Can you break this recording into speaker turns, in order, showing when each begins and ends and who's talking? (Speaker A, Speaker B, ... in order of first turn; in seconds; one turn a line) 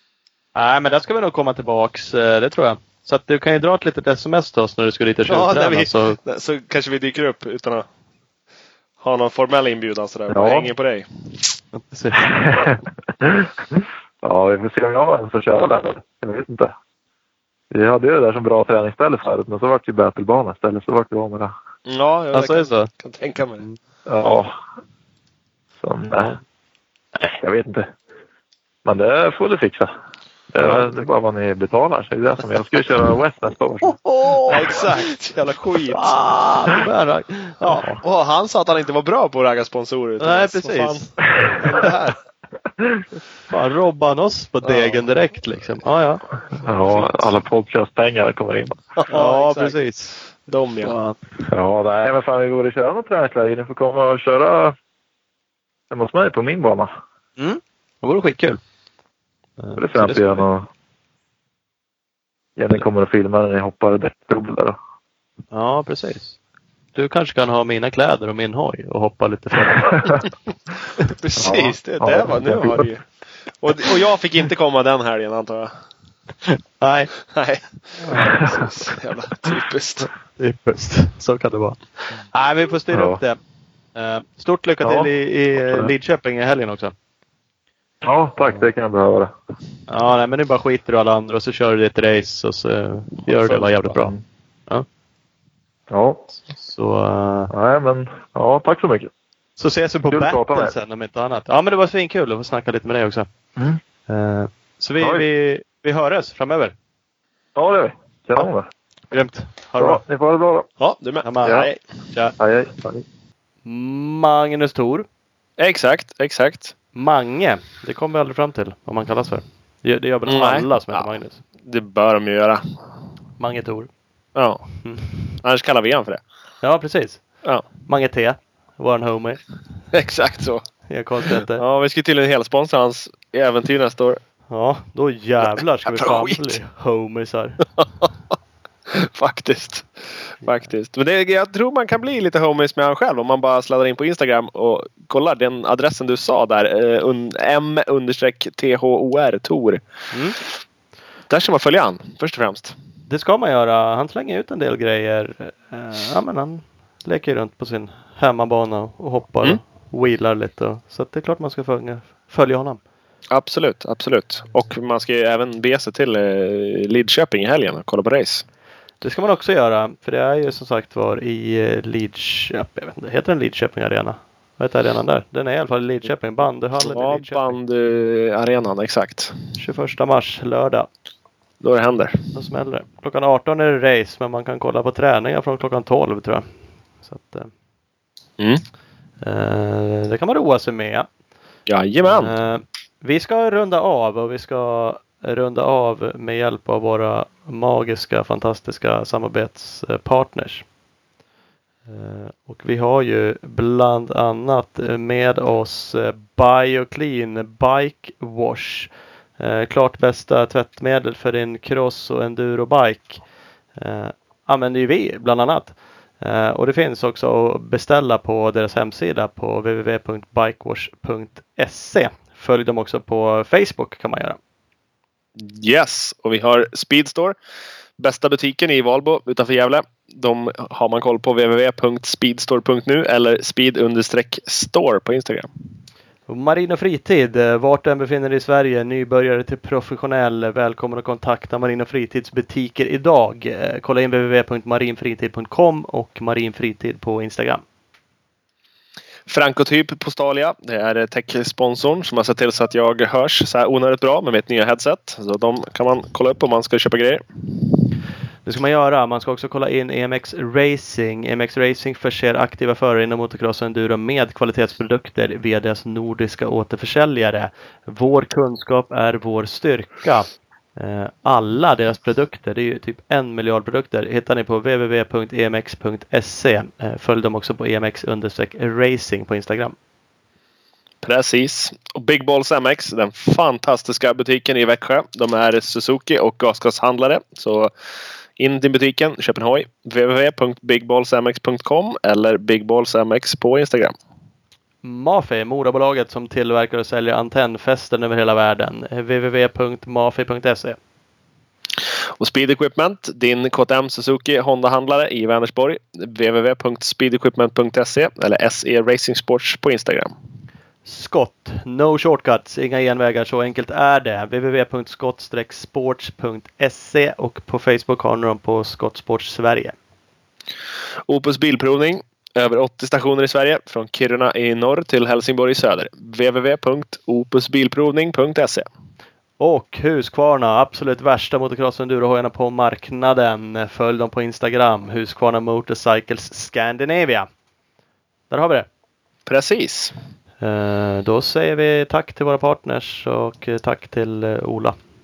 Speaker A: 0.5-6.2
Speaker B: 5.3-7.8
Speaker B: 9.0-11.1
Speaker C: 10.3-10.7
Speaker A: 11.7-12.7
Speaker C: 12.2-16.7
Speaker C: 17.7-21.5
Speaker B: 21.9-23.6
Speaker A: 22.3-22.9
Speaker C: 24.1-24.5
Speaker C: 25.8-26.4
Speaker C: 27.2-27.9
Speaker C: 28.8-29.9
Speaker C: 30.5-34.0
Speaker A: 30.6-31.1
Speaker A: 33.8-34.8
Speaker B: 34.5-36.2
Speaker A: 35.9-38.0
Speaker C: 37.7-38.0
Speaker B: 38.0-41.1
Speaker A: 40.2-42.1
Speaker A: 43.5-46.2
Speaker B: 44.7-45.0
Speaker C: 46.6-49.0
Speaker B: 46.7-47.1
Speaker B: 49.0-49.8
Speaker A: 49.1-50.2
Speaker B: 50.4-50.9
Speaker A: 50.8-51.2
Speaker C: 51.4-54.7
Speaker C: 55.9-56.9
Speaker A: 57.4-58.6
Speaker A: 59.6-60.4
Speaker C: 59.8-60.7
Speaker C: 62.6-64.8
Speaker A: 65.5-66.3
Speaker A: 66.9-70.2
Speaker C: 69.8-70.2
Speaker B: 71.1-75.7
Speaker C: 71.4-72.8
Speaker A: 76.4-77.1
Speaker B: 77.3-80.1
Speaker A: 78.0-78.7
Speaker C: 78.2-78.6
Speaker A: 80.4-83.4
Speaker C: 82.9-83.2
Speaker A: 83.9-86.9
Speaker C: 84.8-85.9
Speaker C: 88.0-89.3
Speaker A: 89.9-94.1
Speaker C: 93.7-94.2
Speaker C: 95.9-96.2
Speaker A: 96.5-97.5
Speaker C: 97.5-99.1
Speaker A: 99.6-103.3
Speaker C: 100.1-100.7
Speaker A: 104.1-106.7
Speaker C: 107.5-108.7
Speaker A: 109.1-110.0
Speaker C: 109.8-110.7
Speaker B: 110.8-111.8
Speaker A: 111.2-112.3
Speaker C: 112.4-113.0
Speaker A: 113.6-115.0
Speaker B: 115.6-116.7
Speaker A: 116.9-121.4
Speaker B: 120.3-122.9
Speaker A: 123.4-123.9
Speaker B: 124.3-126.2
Speaker A: 124.8-125.3
Speaker A: 126.6-129.4
Speaker B: 129.9-134.2
Speaker A: 130.9-131.6
Speaker A: 134.5-137.6
Speaker B: 135.9-136.6
Speaker B: 138.9-149.8
Speaker A: 150.1-150.4
Speaker B: 151.3-152.7
Speaker A: 153.1-162.8
Speaker B: 163.3-168.4
Speaker A: 169.0-177.6
Speaker B: 176.8-179.3
Speaker A: 179.6-180.9
Speaker B: 181.6-182.2
Speaker A: 182.3-187.5
Speaker A: 189.2-191.1
Speaker B: 191.7-192.3
Speaker A: 192.0-200.7
Speaker A: 201.9-213.2
Speaker A: 213.7-224.4
Speaker B: 225.3-227.3
Speaker B: 228.0-235.5
Speaker A: 236.3-247.6
Speaker B: 249.3-257.2
Speaker A: 258.4-279.8
Speaker B: 281.0-287.7
Speaker B: 288.4-293.9
Speaker A: 294.8-300.8
Speaker B: 302.2-310.1
Speaker A: 310.8-319.7
Speaker B: 321.1-328.6
Speaker A: 329.4-337.3
Speaker A: 338.3-338.7
Speaker B: 339.2-339.9
Speaker A: 340.4-344.8